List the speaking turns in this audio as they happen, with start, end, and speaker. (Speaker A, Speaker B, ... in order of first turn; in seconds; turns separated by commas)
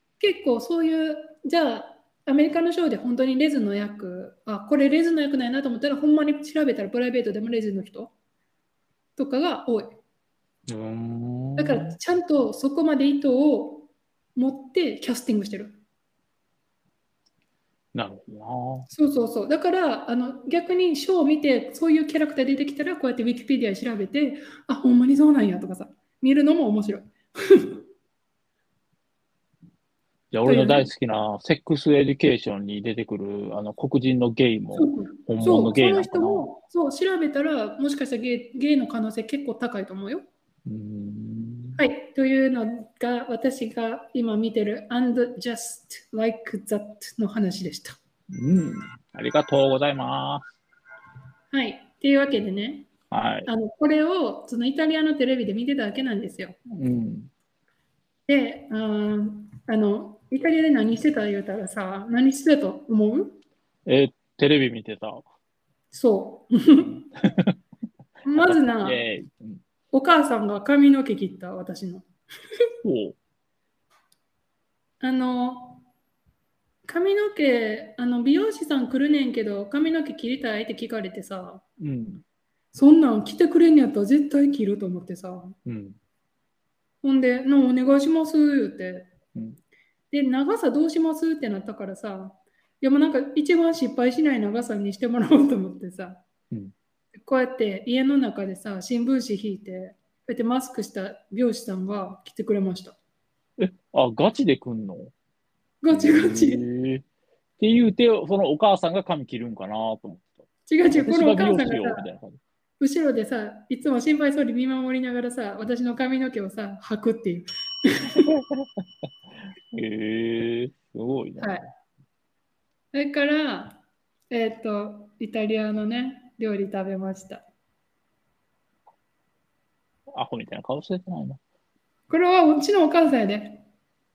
Speaker A: 0.2-8.1, Speaker A: 9.2-10.0, Speaker B: 10.7-11.9, Speaker A: 11.6-15.8, Speaker B: 17.9-18.9, Speaker A: 18.9-27.8, Speaker B: 30.3-36.5, Speaker A: 30.4-30.9, Speaker A: 34.7-40.2, Speaker B: 40.7-41.8, Speaker A: 41.8-48.0, Speaker B: 48.3-50.4, Speaker A: 51.5-52.9, Speaker B: 53.1-53.5, Speaker A: 53.5-56.6, Speaker B: 56.7-57.3, Speaker A: 58.3-63.4, Speaker B: 63.9-65.2, Speaker A: 65.9-67.1, Speaker A: 68.2-69.0, Speaker B: 68.4-69.6, Speaker A: 69.9-72.1, Speaker B: 72.8-73.2, Speaker A: 75.0-75.8, Speaker A: 76.9-81.6, Speaker B: 81.8-82.2, Speaker A: 82.7-85.6, Speaker B: 85.7-86.0, Speaker A: 87.0-89.1, Speaker A: 90.1-96.2, Speaker A: 97.2-103.0, Speaker B: 103.6-105.1, Speaker A: 105.8-106.6, Speaker B: 105.9-107.0, Speaker B: 107.6-110.4, Speaker A: 110.7-112.1, Speaker B: 111.0-112.4, Speaker A: 112.8-118.3, Speaker B: 119.8-121.5, Speaker A: 121.4-121.7, Speaker A: 122.9-127.5, Speaker B: 130.1-131.4, Speaker A: 132.1-133.6